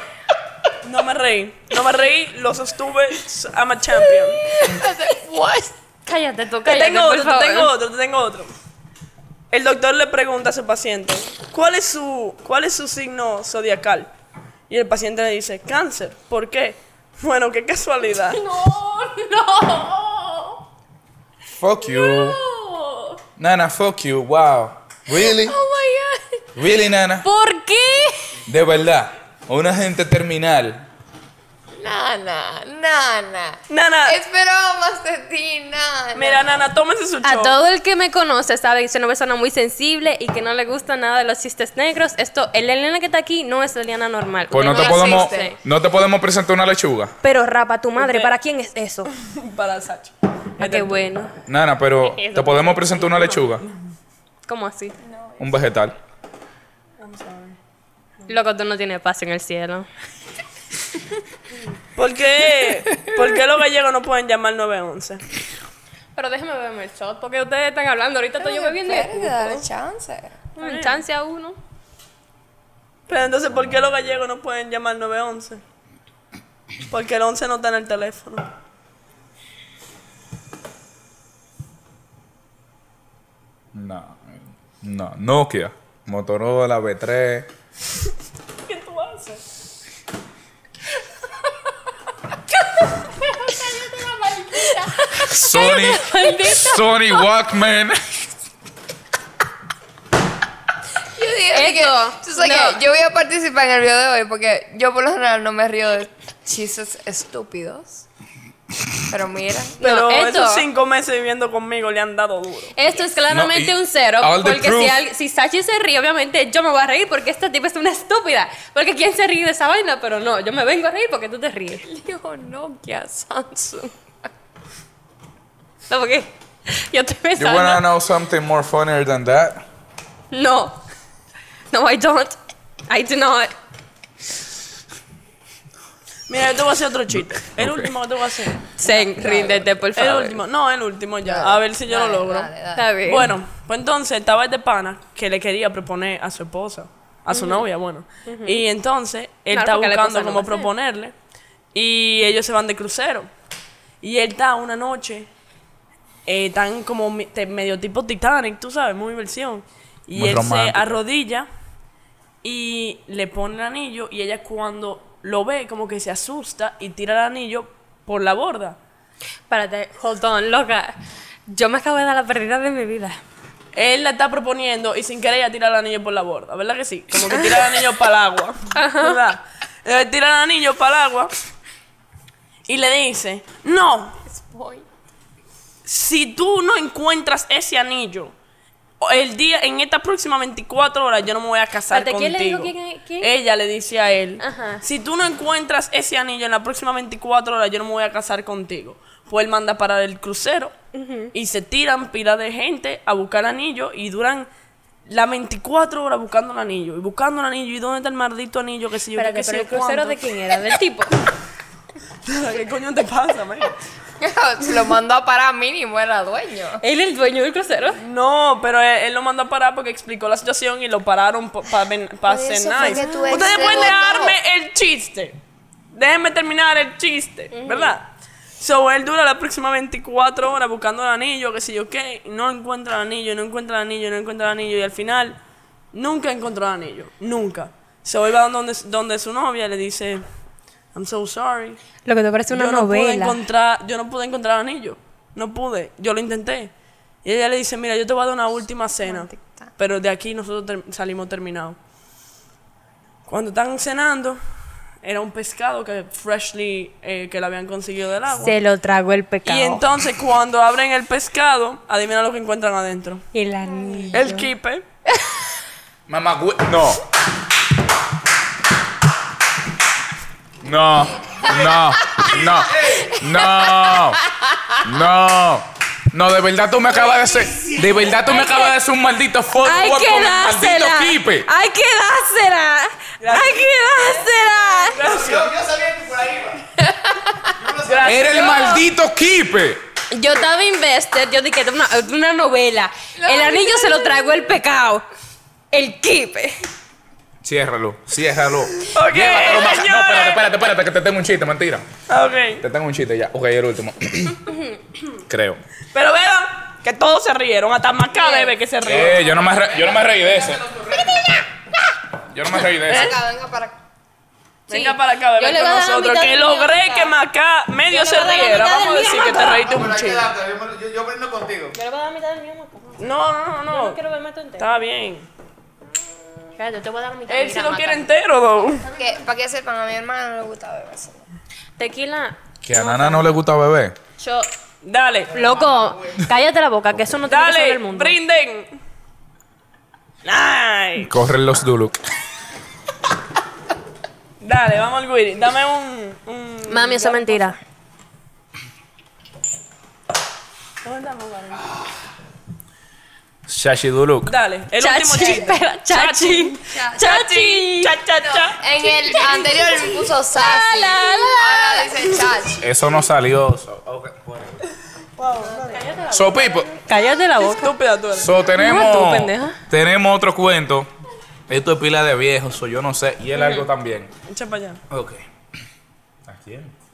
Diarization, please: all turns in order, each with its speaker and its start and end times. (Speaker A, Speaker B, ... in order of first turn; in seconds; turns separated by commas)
Speaker A: 0.8-4.5, Speaker B: 4.4-5.8, Speaker C: 6.1-7.7, Speaker A: 6.7-8.5, Speaker A: 9.5-14.1, Speaker A: 14.7-18.4, Speaker C: 18.3-20.6, Speaker D: 21.6-22.4, Speaker C: 21.9-23.1, Speaker D: 23.4-25.6, Speaker B: 25.2-26.4, Speaker D: 26.6-27.3, Speaker C: 27.2-28.3, Speaker D: 28.5-30.9, Speaker B: 31.8-36.6, Speaker A: 33.7-34.2, Speaker A: 36.1-37.5, Speaker C: 37.2-45.6, Speaker D: 44.5-47.1, Speaker B: 44.7-45.5, Speaker C: 47.2-49.1, Speaker A: 48.0-48.3, Speaker A: 49.1-51.0, Speaker C: 50.6-51.3, Speaker D: 51.5-53.6, Speaker C: 52.0-53.1, Speaker A: 53.1-53.7, Speaker C: 54.5-55.0, Speaker B: 55.0-55.5, Speaker D: 55.4-56.0, Speaker A: 57.0-57.6, Speaker C: 58.3-59.9, Speaker A: 62.0-65.2, Speaker C: 66.2-69.5, Speaker B: 68.4-70.4, Speaker C: 70.6-71.6, Speaker A: 70.6-71.0, Speaker A: 73.1-75.6, Speaker D: 73.5-74.2, Speaker A: 76.9-78.5, Speaker D: 83.7-87.5, Speaker A: 88.7-89.4, Speaker B: 93.7-94.9, Speaker C: 94.9-96.9, Speaker D: 95.2-98.0, Speaker B: 101.2-108.0, Speaker C: 101.5-102.8, Speaker B: 109.1-109.8, Speaker C: 109.8-110.7, Speaker A: 109.8-112.8, Speaker C: 112.8-121.8, Speaker D: 113.3-115.0, Speaker B: 121.9-123.9, Speaker C: 125.9-127.8, Speaker D: 127.4-129.6, Speaker C: 130.3-130.8, Speaker C: 131.7-132.4, Speaker C: 132.9-133.5, Speaker A: 136.3-138.7, Speaker D: 137.1-137.9, Speaker C: 138.8-140.4, Speaker B: 138.9-139.6, Speaker A: 139.9-142.5, Speaker B: 141.2-143.0, Speaker C: 142.8-143.3, Speaker A: 143.1-151.1, Speaker C: 147.3-147.7, Speaker C: 148.3-148.6, Speaker C: 149.5-150.7, Speaker A: 151.7-153.3, Speaker A: 154.0-155.3, Speaker A: 156.3-161.5, Speaker D: 160.1-161.0, Speaker A: 162.4-168.8, Speaker C: 169.5-170.9, Speaker C: 171.5-173.2, Speaker A: 173.7-181.3, Speaker C: 177.3-177.6, Speaker C: 178.8-179.2, Speaker A: 182.7-184.2, Speaker B: 184.3-184.8, Speaker A: 185.9-188.3, Speaker A: 189.0-200.8, Speaker C: 191.9-193.3, Speaker C: 194.4-194.8, Speaker C: 200.9-201.3, Speaker A: 201.3-204.5, Speaker A: 205.1-210.2, Speaker C: 209.2-211.1, Speaker A: 212.2-213.8, Speaker B: 214.2-216.8, Speaker C: 216.8-218.0, Speaker A: 218.0-225.4, Speaker B: 222.3-224.4, Speaker C: 222.9-223.4, Speaker A: 225.9-235.4, Speaker C: 227.5-228.0, Speaker A: 235.9-240.2, Speaker A: 240.9-241.8, Speaker C: 242.1-243.4, Speaker A: 242.5-246.7, Speaker A: 247.2-251.8, Speaker B: 249.0-249.7, Speaker A: 253.3-254.4, Speaker A: 255.0-258.6, Speaker C: 258.4-259.8, Speaker A: 259.5-263.3, Speaker C: 263.3-264.5, Speaker B: 263.7-264.2, Speaker A: 264.1-264.8, Speaker D: 266.1-267.0, Speaker D: 270.6-274.2, Speaker E: 272.3-273.2, Speaker D: 274.8-281.5, Speaker E: 277.3-278.3, Speaker C: 278.2-278.7, Speaker C: 279.6-285.0, Speaker A: 283.2-285.5, Speaker E: 285.0-286.6, Speaker E: 287.6-288.6, Speaker A: 287.9-288.8, Speaker D: 288.0-289.8, Speaker C: 288.4-288.8, Speaker C: 290.1-295.0, Speaker B: 293.2-294.2, Speaker C: 295.7-296.6, Speaker D: 297.4-301.9, Speaker A: 298.9-300.6, Speaker A: 302.1-302.6, Speaker D: 302.6-304.5, Speaker D: 305.3-305.6, Speaker A: 305.9-309.3, Speaker C: 308.2-308.5, Speaker D: 308.8-310.7, Speaker E: 310.3-311.2, Speaker D: 312.3-313.2, Speaker B: 312.9-313.8, Speaker A: 312.9-313.2, Speaker A: 314.7-320.3, Speaker C: 314.7-317.1, Speaker C: 317.9-319.8, Speaker E: 319.6-321.8, Speaker C: 321.8-323.1, Speaker A: 323.0-324.0, Speaker C: 323.7-324.7, Speaker A: 324.6-325.3, Speaker C: 326.6-328.1, Speaker A: 327.3-328.9, Speaker B: 328.9-331.3, Speaker C: 331.8-333.4, Speaker D: 332.6-334.0, Speaker C: 334.2-334.5, Speaker A: 334.8-335.3, Speaker C: 335.3-338.2, Speaker E: 335.6-335.9, Speaker A: 337.2-338.8, Speaker A: 340.2-341.1, Speaker D: 341.0-342.0, Speaker A: 344.4-347.5, Speaker C: 346.7-347.6, Speaker A: 350.8-351.7, Speaker D: 353.5-354.3, Speaker A: 354.2-358.6, Speaker C: 354.8-357.9, Speaker B: 355.2-355.5, Speaker B: 356.7-357.0, Speaker B: 358.5-362.7, Speaker C: 358.9-361.9, Speaker D: 362.6-364.6, Speaker A: 365.2-365.8, Speaker C: 365.6-367.7, Speaker D: 366.1-366.7, Speaker A: 367.5-368.3, Speaker D: 368.1-370.9, Speaker C: 368.6-369.6, Speaker D: 371.5-374.1, Speaker A: 374.3-374.8, Speaker D: 374.9-375.2, Speaker D: 376.3-376.7